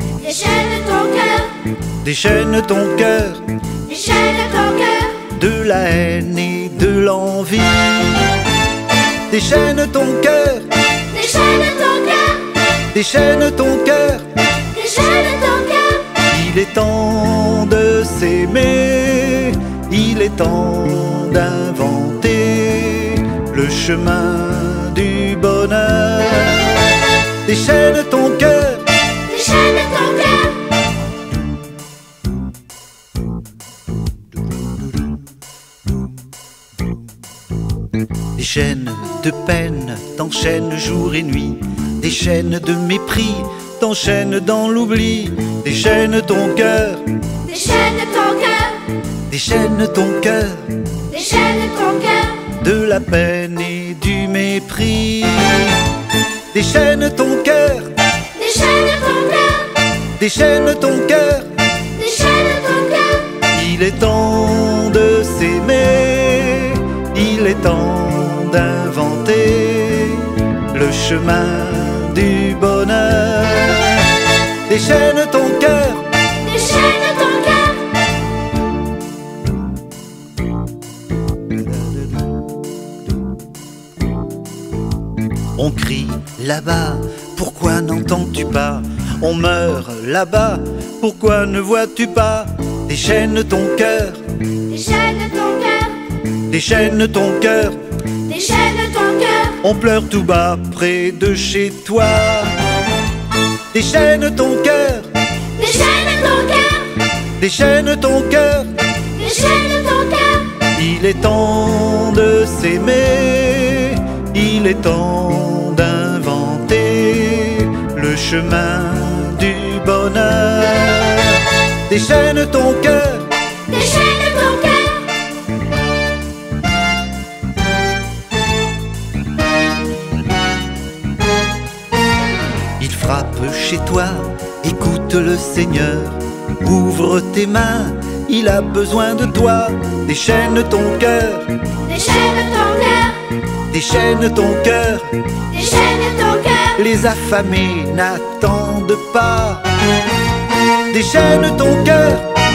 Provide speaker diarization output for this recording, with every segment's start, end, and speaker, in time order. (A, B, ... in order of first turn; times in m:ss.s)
0:00.2-0:01.7 A
0:02.0-0:03.5 B
0:03.8-0:05.2 A
0:05.2-0:08.4 B
0:09.3-0:11.0 B
0:11.1-0:12.6 A
0:12.9-0:14.4 B
0:14.6-0:16.2 A
0:16.2-0:26.9 B
0:27.4-0:29.0 B
0:29.2-0:30.7 A
0:38.4-0:47.3 B
0:47.4-0:48.9 A
0:49.3-0:51.0 B
0:51.1-0:52.5 A
0:52.4-0:55.9 B
0:56.5-0:58.0 B
0:58.3-0:59.9 A
1:00.1-1:01.8 B
1:01.9-1:03.4 A
1:03.4-1:16.1 B
1:16.4-1:17.9 A
1:25.6-1:34.2 B
1:34.6-1:36.1 A
1:36.5-1:37.8 B
1:38.2-1:39.6 A
1:39.6-1:42.6 B
1:43.7-1:45.1 B
1:45.5-1:47.0 A
1:47.4-1:48.9 B
1:49.0-1:50.6 A
1:50.6-2:03.3 B
2:03.6-2:05.2 A
2:12.8-2:21.8 B
2:21.8-2:23.4 A
2:23.7-2:25.3 B
2:25.5-2:26.8 A
2:26.7-2:29.7 B
2:30.9-2:32.4 B